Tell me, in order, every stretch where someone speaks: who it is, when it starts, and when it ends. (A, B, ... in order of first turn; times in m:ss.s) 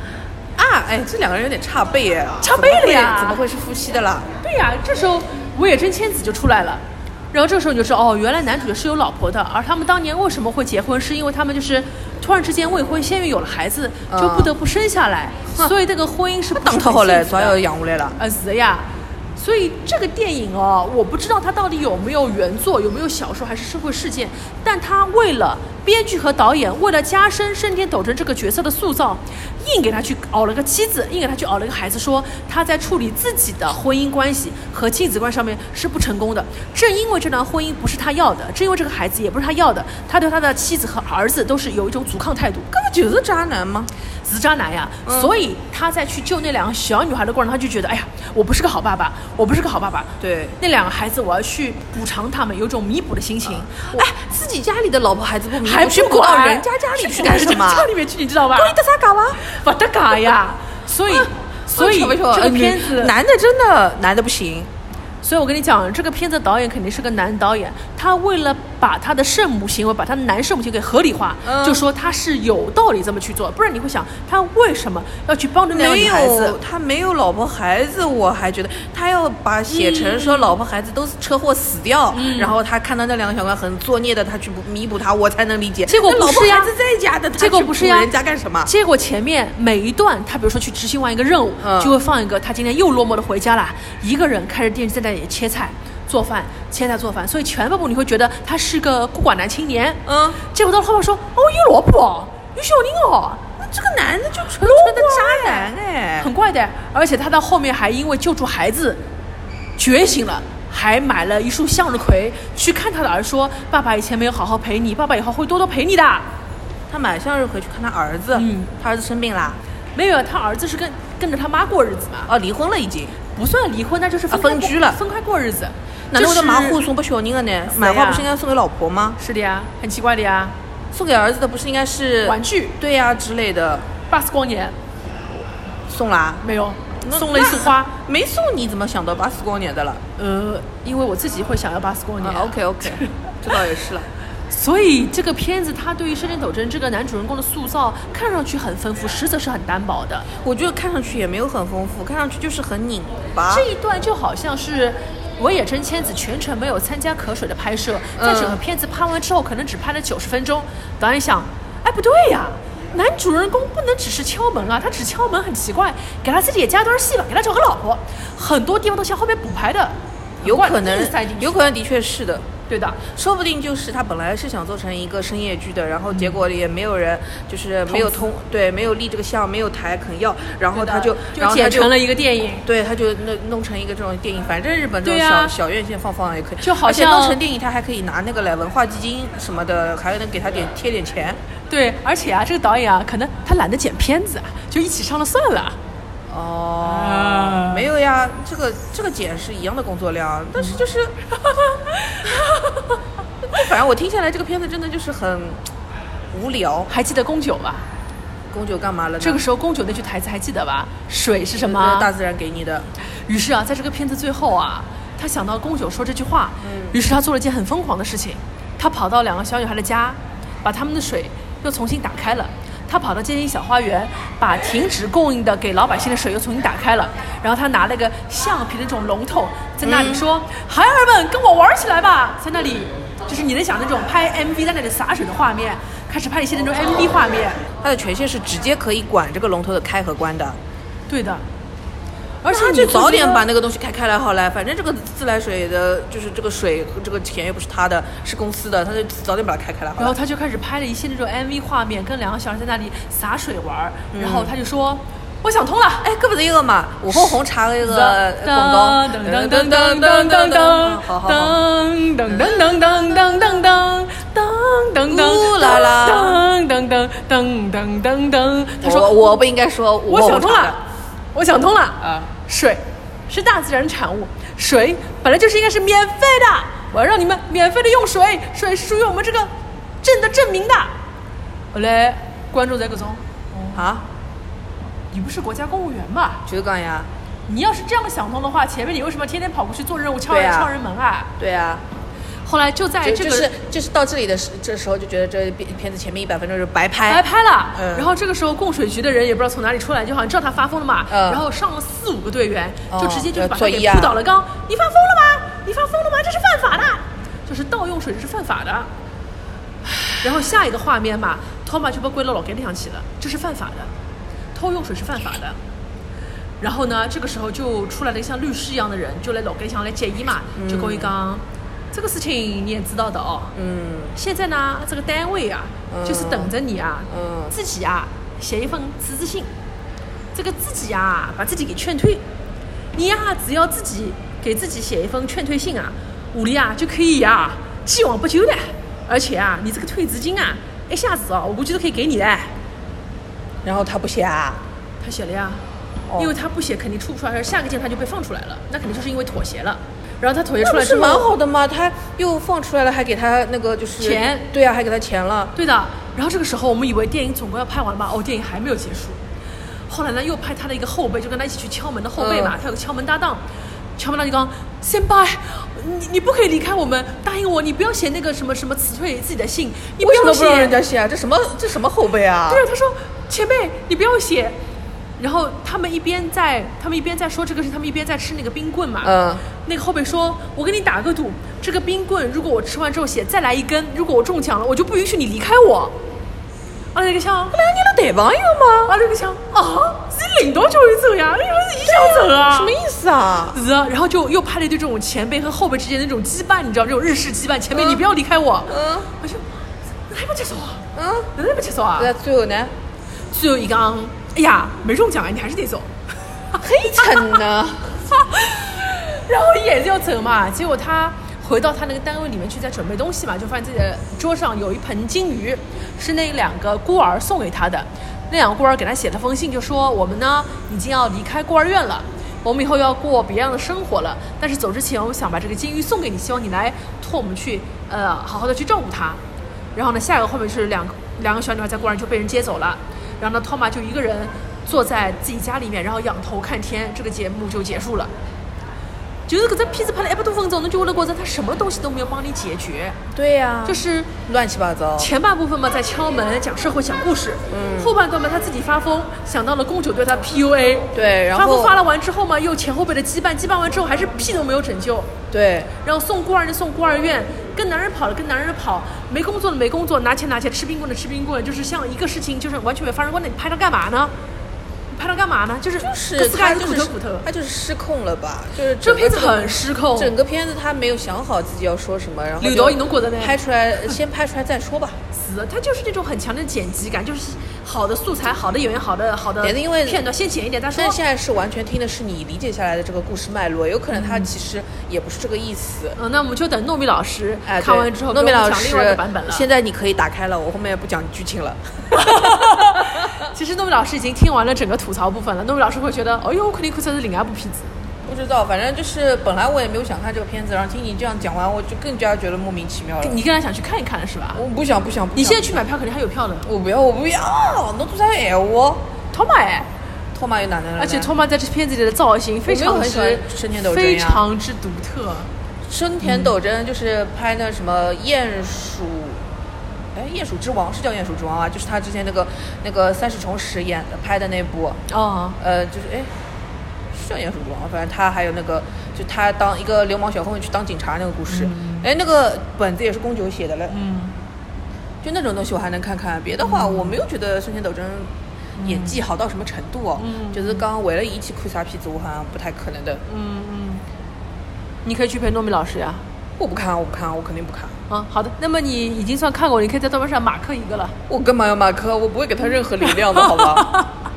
0:00.6-0:04.3 A
0:02.4-0:03.4 B
0:04.4-0:17.6 B
0:14.1-0:14.5 A
0:16.6-0:18.2 A
0:18.2-0:42.7 B
0:42.7-0:43.9 A
0:44.2-0:54.1 B
0:45.0-0:45.3 A
0:50.2-0:50.6 A
0:53.7-0:57.9 A
0:55.6-0:58.8 B
0:58.5-0:59.4 A
0:59.4-1:03.1 B
1:01.1-1:04.7 A
1:05.2-1:16.6 B
1:11.4-1:11.8 A
1:15.7-1:28.7 A
1:19.7-1:20.5 B
1:22.1-1:22.5 B
1:25.9-1:26.7 B
1:27.4-1:28.1 B
1:28.6-1:43.4 B
1:31.6-1:32.0 A
1:40.0-1:40.4 A
1:43.6-1:46.3 A
1:44.6-1:49.0 B
1:49.8-1:56.3 B
1:56.9-1:59.6 A
1:58.3-1:58.7 B
2:00.0-2:02.3 B
2:02.3-2:03.2 A
2:03.3-2:06.8 B
2:04.3-2:05.0 A
2:06.1-2:09.2 A
2:07.7-2:08.2 B
2:09.2-2:10.5 B
2:10.9-2:13.9 A
2:12.2-2:12.8 B
2:14.1-2:14.7 B
2:15.9-2:16.4 A
2:16.4-2:17.9 B
2:17.0-2:20.0 A
2:20.2-2:23.1 B
2:22.2-2:24.1 A
2:24.5-2:30.3 B
2:30.4-2:33.6 A
2:33.5-2:51.6 B
2:38.2-2:38.6 A
2:50.4-2:52.5 A
2:52.7-2:53.0 B
2:53.0-3:02.0 A
2:57.9-2:58.2 B
3:00.7-3:02.6 B
3:02.6-3:11.4 A
3:05.0-3:05.5 B
3:06.6-3:07.4 B
3:11.7-3:15.8 B
3:16.3-3:21.2 A
3:16.8-3:17.8 B
3:21.6-3:23.0 B
3:23.5-3:25.6 A
3:26.3-3:26.9 A
3:26.9-3:27.8 B
3:28.5-3:29.4 A
3:29.2-3:32.1 B
3:31.6-3:32.9 A
3:33.3-3:57.6 B
3:36.6-3:37.0 A
3:49.8-3:50.2 A
3:57.8-4:00.6 A
4:01.1-4:01.4 B
4:02.4-4:03.4 B
4:02.5-4:10.1 A
4:10.0-4:16.1 B
4:14.1-4:14.5 A
4:16.0-4:21.6 A
4:17.1-4:29.4 B
4:22.3-4:22.8 A
4:25.1-4:26.4 A
4:28.8-4:30.8 A
4:30.1-4:30.8 B
4:31.3-4:39.5 B
4:32.0-4:32.3 A
4:40.0-4:40.9 B
4:41.7-4:43.8 B
4:43.7-4:44.0 A
4:45.1-4:46.4 B
4:46.4-4:47.1 A
4:47.5-4:51.3 B
4:50.3-4:50.7 A
4:51.4-4:51.8 A
4:52.4-4:53.5 B
4:53.0-4:57.2 A
4:57.1-5:08.9 B
4:57.7-4:58.1 A
5:01.1-5:01.4 A
5:02.9-5:04.2 A
5:10.1-5:13.9 B
5:14.5-5:15.6 B
5:16.6-5:23.5 B
5:20.6-5:21.1 A
5:23.5-5:24.1 A
5:24.1-5:29.5 B
5:25.9-5:26.5 A
5:27.1-5:27.5 A
5:30.3-5:32.2 B
5:32.9-5:42.5 B
5:43.6-5:44.6 A
5:45.0-5:45.6 B
5:46.2-5:51.3 B
5:50.6-5:55.5 A
5:54.0-5:54.5 B
5:55.5-5:59.2 B
5:59.9-6:03.4 B
6:02.2-6:02.5 A
6:04.0-6:10.8 B
6:10.0-6:12.6 A
6:12.5-6:14.6 B
6:15.2-6:25.9 B
6:19.0-6:19.4 A
6:26.9-6:27.6 B
6:27.5-6:29.0 A
6:28.9-6:32.7 B
6:31.8-6:33.6 A
6:33.5-6:39.4 B
6:37.7-6:38.0 A
6:38.7-6:39.1 A
6:40.1-6:42.1 B
6:40.9-6:41.3 A
6:42.0-6:42.7 A
6:43.3-6:45.9 B
6:46.5-6:47.4 B
6:46.6-6:47.9 A
6:48.1-7:09.2 B
7:09.7-7:18.1 B
7:19.3-7:23.0 B
7:23.1-7:25.1 A
7:23.6-7:24.1 B
7:25.0-7:35.1 B
7:27.5-7:28.0 A
7:30.9-7:31.8 A
7:35.3-7:35.7 A
7:35.8-7:44.1 B
7:44.9-7:47.3 B
7:45.8-7:55.0 A
7:48.8-7:50.1 B
7:52.4-7:53.4 B
7:55.1-8:01.0 B
7:59.4-8:00.0 A
8:00.7-8:06.0 A
8:04.0-8:04.3 B
8:06.0-8:09.4 B
8:07.4-8:12.9 A
8:11.9-8:17.7 B
8:18.0-8:23.2 A
8:23.0-8:24.4 B
8:24.3-8:25.6 A
8:25.1-8:26.5 B
8:26.4-8:28.8 A
8:29.1-8:29.7 B
8:30.1-8:31.1 A
8:30.8-8:35.3 B
8:32.5-8:34.2 A
8:35.7-8:39.2 A
8:36.0-8:36.3 B
8:39.9-8:44.8 A
8:44.9-8:45.4 B
8:45.4-8:46.1 A
8:46.9-8:53.7 A
8:51.3-8:51.8 B
8:53.7-8:54.1 B
8:55.0-8:58.1 A
8:56.4-8:56.9 B
8:58.6-8:59.0 B
8:58.6-9:03.0 A
9:00.0-9:00.6 B
9:03.1-9:03.8 B
9:04.8-9:06.0 B
9:06.4-9:07.8 A
9:07.9-9:11.0 B
9:11.1-9:13.8 A
9:13.1-9:13.9 B